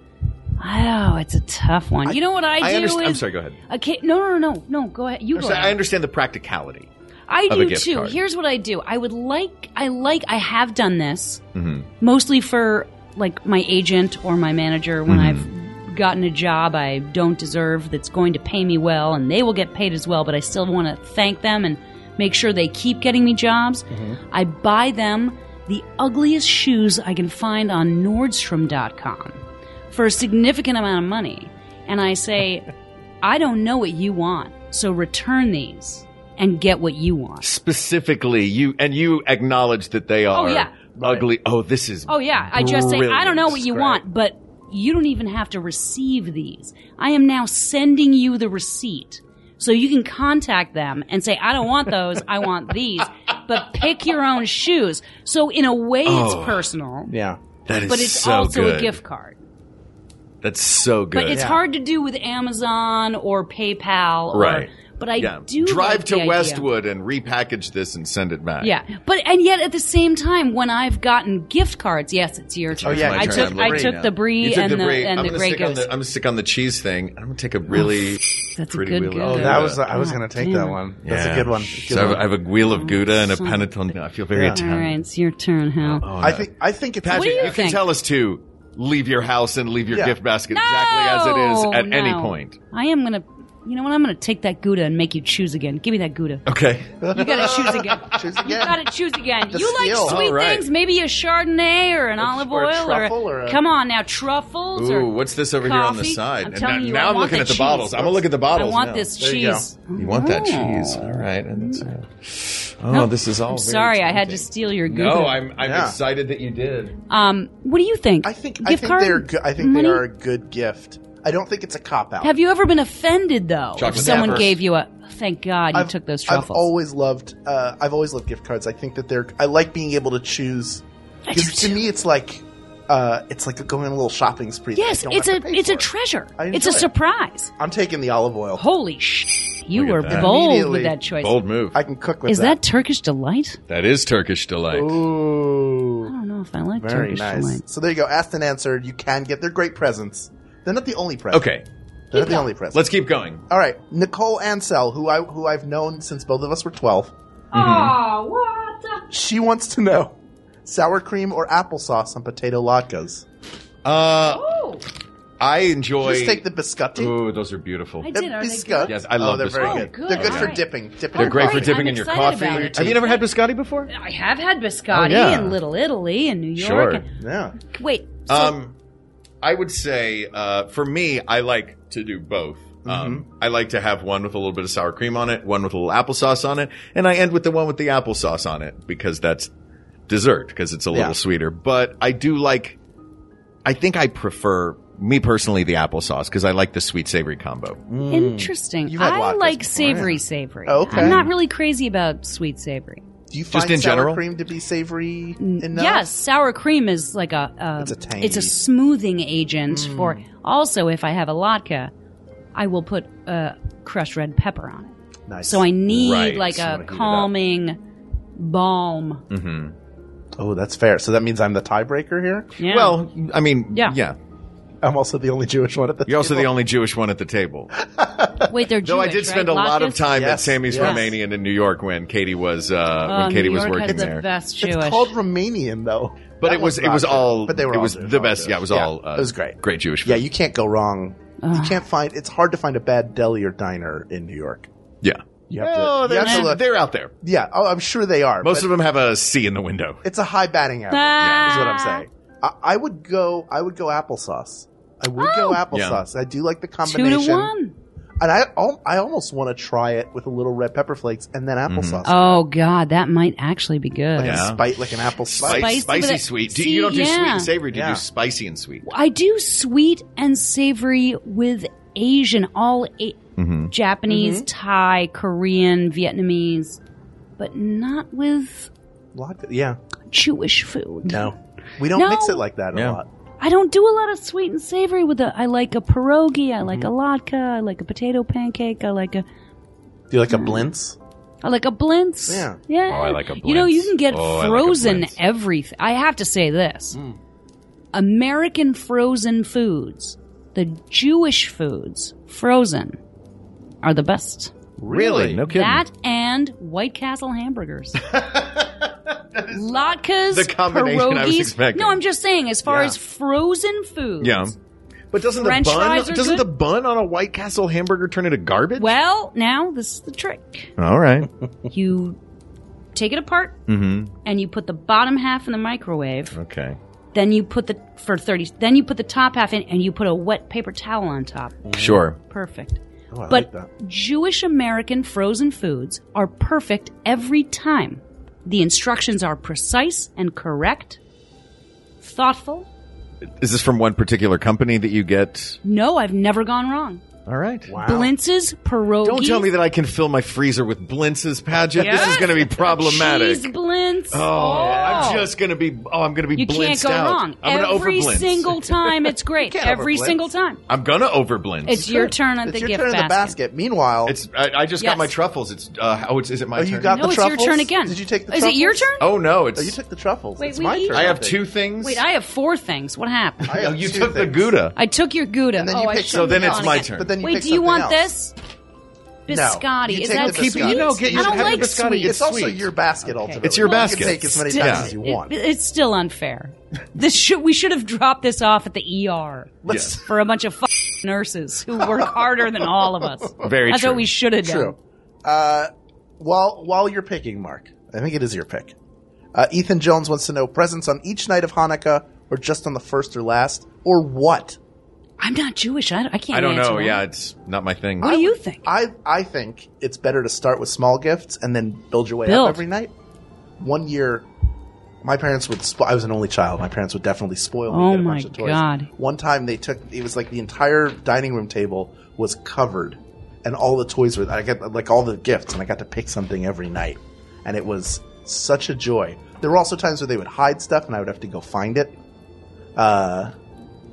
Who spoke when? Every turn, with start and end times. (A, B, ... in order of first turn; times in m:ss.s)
0:00.6-0:05.8 A
0:02.1-0:03.6 B
0:05.4-0:06.9 B
0:07.3-0:11.4 A
0:07.5-0:08.2 B
0:11.5-0:11.9 B
0:12.0-0:29.4 A
0:15.1-0:15.5 B
0:23.9-0:24.2 C
0:29.9-0:32.7 A
0:33.2-0:37.5 A
0:37.4-0:43.5 B
0:40.3-0:40.7 A
0:41.0-0:41.3 C
0:42.1-0:57.1 A
0:42.9-0:44.0 C
0:56.0-0:56.6 B
0:57.1-0:57.4 C
0:57.7-0:59.0 B
0:57.9-0:59.4 A
1:00.4-1:01.4 B
1:01.1-1:06.7 A
1:01.3-1:01.6 C
1:04.3-1:08.7 B
1:08.6-1:15.9 A
1:12.7-1:19.8 B
1:12.8-1:14.0 C
1:17.7-1:20.8 A
1:19.2-1:22.3 C
1:21.0-1:25.0 B
1:22.6-1:23.7 A
1:24.3-1:24.6 C
1:24.5-1:26.0 A
1:25.8-1:26.5 B
1:26.2-1:27.6 C
1:27.0-1:32.6 B
1:27.1-1:27.8 A
1:30.5-1:36.5 A
1:36.5-1:37.6 B
1:37.0-1:38.9 C
1:37.1-1:51.9 A
1:39.5-1:40.2 C
1:40.1-1:40.7 B
1:42.2-1:43.6 C
1:44.8-1:49.1 B
1:49.2-1:49.7 C
1:50.0-1:57.0 B
1:52.9-1:55.4 A
1:55.6-1:56.0 C
1:57.1-2:00.0 A
1:58.2-2:02.4 C
2:02.2-2:06.7 A
2:03.8-2:04.6 B
2:03.9-2:04.6 C
2:05.7-2:16.9 C
2:11.3-2:11.8 A
2:14.8-2:17.5 A
2:17.6-2:18.6 C
2:18.6-2:21.4 A
2:19.7-2:20.3 B
2:20.1-2:21.0 C
2:21.2-2:21.8 B
2:21.7-2:22.6 C
2:22.3-2:23.6 A
2:23.7-2:25.0 B
2:24.7-2:26.1 C
2:26.1-2:27.6 A
2:26.8-2:31.5 C
2:31.3-2:31.6 B
2:32.1-2:32.8 C
2:32.1-2:32.5 A
2:32.7-2:33.4 B
2:33.5-2:37.1 C
2:37.5-2:39.1 A
2:37.5-2:38.0 B
2:39.1-2:43.3 C
2:43.8-2:44.4 B
2:44.2-2:44.8 A
2:45.4-2:46.4 B
2:46.0-2:47.2 C
2:47.0-2:48.1 B
2:48.0-2:48.9 A
2:48.1-2:51.8 C
2:48.9-2:50.6 B
2:49.5-2:53.2 A
2:51.1-2:53.9 B
2:52.4-2:53.1 C
2:53.9-2:57.0 A
2:54.9-2:55.6 B
2:56.6-2:57.0 B
2:57.2-2:57.6 C
2:57.7-2:58.6 A
2:58.3-2:58.7 B
2:59.4-3:09.5 B
3:02.8-3:03.2 C
3:10.1-3:12.8 B
3:10.9-3:11.2 C
3:13.6-3:17.8 B
3:17.9-3:21.2 C
3:18.1-3:23.0 A
3:20.9-3:21.3 B
3:23.3-3:26.1 C
3:23.5-3:24.2 B
3:25.4-3:31.9 A
3:27.8-3:28.5 C
3:29.7-3:30.2 C
3:32.6-3:34.9 A
3:35.3-3:35.7 C
3:35.4-3:37.8 A
3:35.9-3:36.5 B
3:36.4-3:37.3 C
3:38.4-3:39.2 A
3:39.3-3:39.8 B
3:40.4-3:42.5 C
3:42.6-3:43.0 A
3:42.7-3:44.2 B
3:44.8-3:46.5 C
3:46.1-3:47.8 B
3:47.8-3:48.5 C
3:48.5-3:50.1 A
3:48.8-3:54.3 B
3:50.1-3:51.0 C
3:50.7-3:51.2 A
3:53.1-3:55.1 A
3:54.6-4:04.7 C
3:56.4-4:00.2 B
4:01.4-4:01.8 A
4:05.0-4:07.1 B
4:05.5-4:06.6 C
4:06.2-4:06.6 A
4:07.2-4:08.7 C
4:08.4-4:10.0 B
4:10.0-4:17.5 C
4:10.9-4:12.0 A
4:11.2-4:11.6 B
4:15.2-4:15.6 A
4:15.7-4:16.0 B
4:16.8-4:17.8 A
4:18.2-4:22.4 C
4:21.7-4:22.0 B
4:22.1-4:24.5 A
4:24.2-4:24.6 B
4:24.2-4:25.9 C
4:25.3-4:28.9 B
4:25.4-4:27.5 A
4:27.7-4:28.0 C
4:28.8-4:33.2 A
4:33.4-4:33.7 B
4:33.7-4:36.8 A
4:34.1-4:34.5 C
4:37.4-4:38.7 A
4:39.1-4:39.8 C
4:40.1-4:41.3 A
4:41.1-4:43.1 C
4:41.9-4:42.4 A
4:43.4-4:49.2 A
4:50.1-4:51.0 C
4:50.3-4:50.7 A
4:51.4-4:57.0 A
4:52.3-4:52.6 C
4:52.9-4:55.2 B
4:56.9-4:57.2 C
4:57.9-5:03.0 A
5:03.8-5:04.6 A
5:04.8-5:05.4 C
5:04.8-5:05.8 B
5:05.5-5:08.0 A
5:08.0-5:12.0 B
5:09.5-5:14.6 A
5:12.7-5:13.0 C
5:14.2-5:14.6 B
5:15.1-5:19.0 B
5:15.4-5:16.5 A
5:18.8-5:20.7 A
5:20.8-5:21.3 B
5:21.7-5:22.2 A
5:23.0-5:23.6 A
5:23.7-5:24.1 B
5:24.2-5:26.4 A
5:26.3-5:26.8 B
5:27.1-5:41.0 A
5:31.6-5:32.0 C
5:31.8-5:32.2 B
5:33.1-5:33.7 C
5:42.0-5:42.7 A
5:43.4-5:45.6 B
5:45.6-5:47.0 A
5:47.3-5:47.7 B
5:47.7-5:48.1 C
5:47.8-5:49.5 A
5:49.0-5:53.5 B
5:51.8-5:55.3 A
5:51.8-5:52.3 C
5:54.1-5:58.9 B
5:54.4-5:55.2 C
5:56.4-6:00.6 A
5:59.4-6:00.2 C
6:00.7-6:01.8 B
6:01.7-6:03.4 A
6:01.7-6:04.2 C
6:04.0-6:07.0 B
6:04.8-6:05.1 A
6:06.6-6:09.0 C
6:06.9-6:09.0 A
6:09.0-6:09.8 B
6:09.5-6:11.4 C
6:10.4-6:11.0 A
6:10.9-6:12.0 B
6:11.8-6:13.5 A
6:13.5-6:14.8 B
6:13.5-6:14.5 C
6:14.8-6:18.3 A
6:15.6-6:18.1 C
6:16.1-6:17.1 B
6:19.3-6:22.2 A
6:19.3-6:25.4 C
6:20.1-6:22.7 B
6:23.1-6:34.8 A
6:23.4-6:24.9 B
6:29.6-6:29.9 C
6:29.7-6:30.0 B
6:33.4-6:34.1 B
6:34.4-6:38.8 C
6:39.3-6:44.6 C
6:45.2-6:47.0 A
6:46.3-6:48.2 B
6:48.0-6:48.7 A
6:48.0-6:52.9 C
6:52.3-6:52.6 A
6:53.6-6:54.3 C
6:55.0-7:12.0 C
6:57.7-6:58.9 A
7:12.8-7:13.3 C